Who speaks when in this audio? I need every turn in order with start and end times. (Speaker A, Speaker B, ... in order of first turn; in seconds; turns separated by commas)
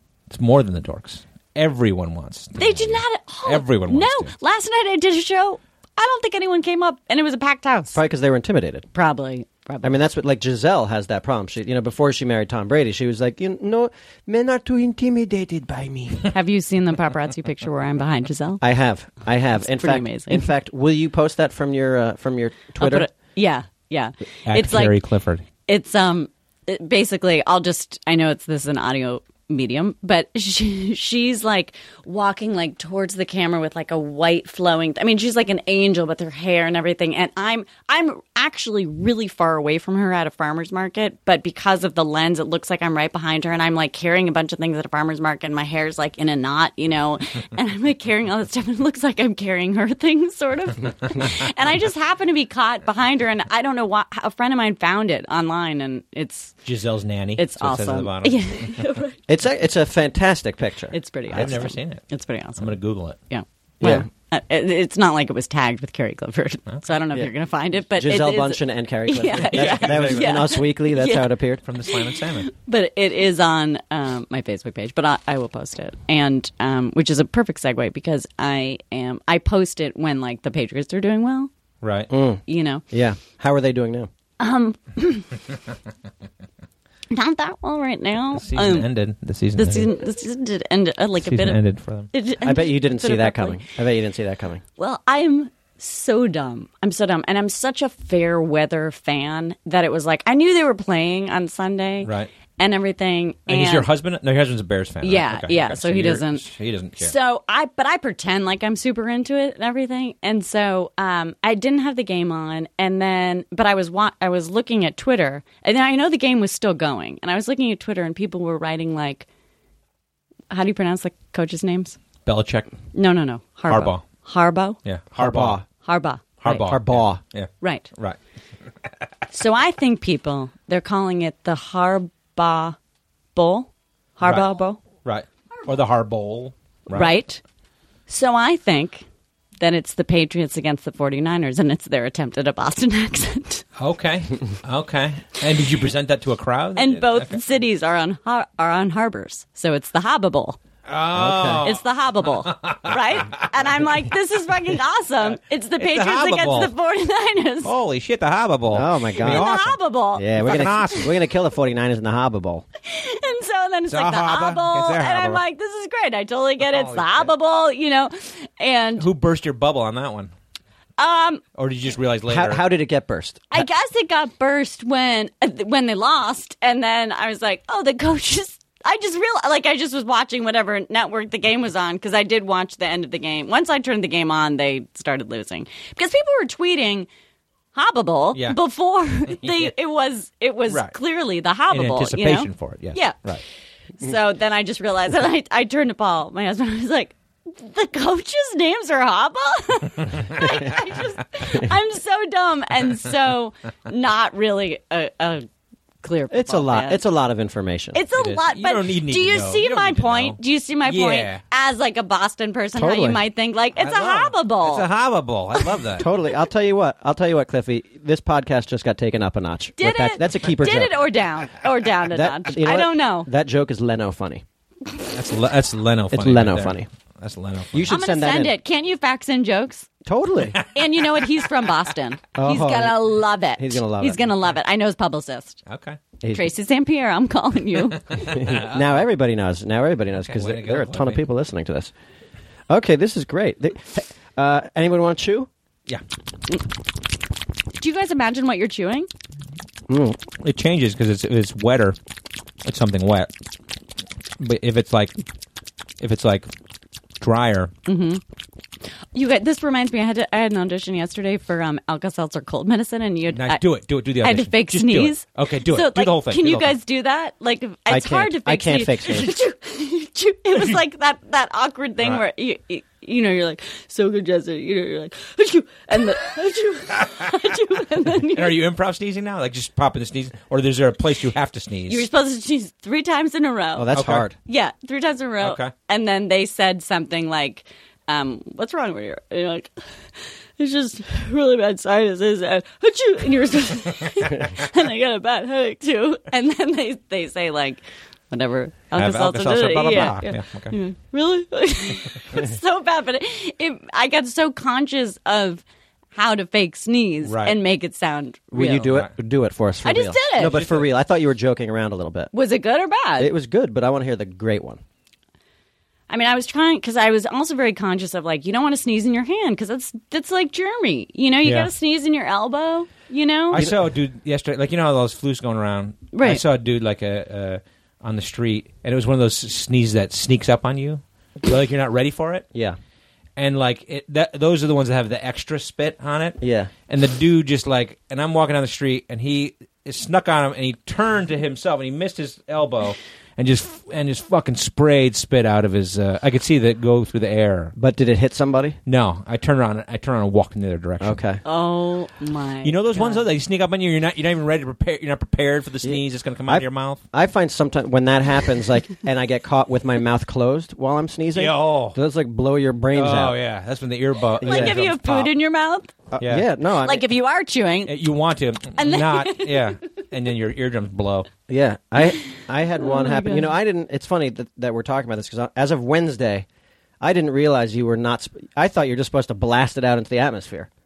Speaker A: 0.3-4.3, Speaker B: 2.6-8.0, Speaker C: 7.9-8.9, Speaker B: 8.9-10.0, Speaker C: 9.8-16.3, Speaker B: 16.3-18.6, Speaker C: 18.6-23.1, Speaker B: 19.6-20.5, Speaker B: 22.8-25.0, Speaker A: 24.5-25.4, Speaker B: 25.7-56.6, Speaker A: 56.6-58.8, Speaker B: 57.4-59.2, Speaker C: 59.3-61.0, Speaker B: 60.9-62.8, Speaker A: 61.3-63.2, Speaker B: 63.3-81.5, Speaker C: 63.8-64.1, Speaker C: 68.0-71.6, Speaker A: 69.4-70.5, Speaker A: 71.7-72.5, Speaker A: 81.8-82.1, Speaker C: 82.1-84.1, Speaker B: 82.5-82.8, Speaker B: 84.4-85.3, Speaker B: 87.1-88.9, Speaker A: 88.3-89.9, Speaker B: 89.6-91.6, Speaker A: 91.2-92.1, Speaker B: 92.1-93.7, Speaker C: 92.4-94.6, Speaker B: 94.8-103.9, Speaker A: 102.0-102.3, Speaker A: 103.5-107.1, Speaker B: 105.0-106.4, Speaker B: 107.0-119.3, Speaker B: 120.5-122.0, Speaker A: 122.2-122.8, Speaker B: 122.9-124.8, Speaker A: 123.7-124.0, Speaker A: 124.8-125.6, Speaker C: 125.1-125.7, Speaker B: 125.8-126.6, Speaker A: 126.4-128.2, Speaker C: 126.5-127.2, Speaker B: 127.6-127.9, Speaker B: 129.3-132.8, Speaker B: 133.3-134.8, Speaker A: 135.0-137.1, Speaker B: 136.9-137.4, Speaker B: 138.1-139.1, Speaker B: 139.6-143.7, Speaker A: 143.8-147.4, Speaker B: 146.8-150.6, Speaker A: 150.9-151.8, Speaker C: 151.1-151.7, Speaker B: 151.6-157.7, Speaker A: 152.4-153.4, Speaker A: 155.8-156.7, Speaker A: 157.6-159.8, Speaker C: 158.7-159.5, Speaker B: 159.2-160.9, Speaker C: 160.2-162.7, Speaker A: 160.4-161.1, Speaker B: 162.8-169.1, Speaker A: 163.9-165.4, Speaker A: 166.6-167.3, Speaker A: 169.0-170.3, Speaker B: 171.0-171.4, Speaker A: 171.6-172.6, Speaker C: 172.3-173.7, Speaker B: 173.5-187.1, Speaker B: 187.7-193.2, Speaker A: 190.7-191.0, Speaker A: 191.7-193.4, Speaker B: 194.0-205.5, Speaker A: 200.3-200.6, Speaker B: 206.0-207.0, Speaker C: 206.3-208.0, Speaker B: 207.9-214.9, Speaker A: 208.2-211.4, Speaker C: 212.8-213.2, Speaker A: 213.8-216.1, Speaker B: 215.6-215.9, Speaker C: 216.0-221.0, Speaker B: 219.8-223.3, Speaker C: 222.1-224.4, Speaker A: 225.0-227.9, Speaker C: 226.1-226.9, Speaker C: 227.7-228.5, Speaker B: 227.9-229.9, Speaker C: 230.1-230.6, Speaker B: 230.7-235.6, Speaker C: 232.3-234.2, Speaker A: 235.7-236.0, Speaker C: 236.2-236.5, Speaker B: 236.3-238.3, Speaker A: 238.2-238.9, Speaker C: 238.2-241.9, Speaker A: 240.2-241.2, Speaker C: 242.7-245.5, Speaker B: 247.8-249.1, Speaker C: 249.9-250.2, Speaker A: 250.4-252.0, Speaker A: 252.6-253.3, Speaker A: 254.4-255.2, Speaker A: 256.0-256.5, Speaker A: 257.2-257.7, Speaker B: 257.9-258.2, Speaker B: 259.1-263.6, Speaker A: 263.3-266.8, Speaker B: 264.2-278.6, Speaker C: 267.9-269.4, Speaker A: 278.2-282.1, Speaker B: 281.9-283.9, Speaker C: 283.8-284.4, Speaker A: 283.9-284.3, Speaker B: 284.4-305.6, Speaker A: 285.4-285.7, Speaker A: 299.0-300.8, Speaker B: 306.1-308.9, Speaker A: 307.2-307.6, Speaker C: 308.5-312.3, Speaker A: 308.8-309.1, Speaker B: 309.9-310.6, Speaker A: 310.4-310.9, Speaker B: 312.3-313.3, Speaker C: 313.2-314.8, Speaker B: 316.1-323.6, Speaker A: 321.4-321.7, Speaker A: 323.5-332.5, Speaker B: 326.1-326.4, Speaker A: 333.4-347.8, Speaker C: 336.4-336.7, Speaker C: 347.8-348.8, Speaker A: 348.9-351.2, Speaker C: 351.0-351.4, Speaker B: 351.4-353.2, Speaker A: 352.6-357.0, Speaker C: 355.8-363.4, Speaker A: 361.4-362.0, Speaker A: 362.9-365.3, Speaker B: 364.4-365.9, Speaker C: 364.4-364.8, Speaker C: 366.1-367.0, Speaker A: 366.2-366.5, Speaker B: 366.8-367.9, Speaker A: 367.9-371.3, Speaker B: 368.8-369.7, Speaker C: 371.5-376.5, Speaker B: 372.2-373.5, Speaker C: 377.0-380.7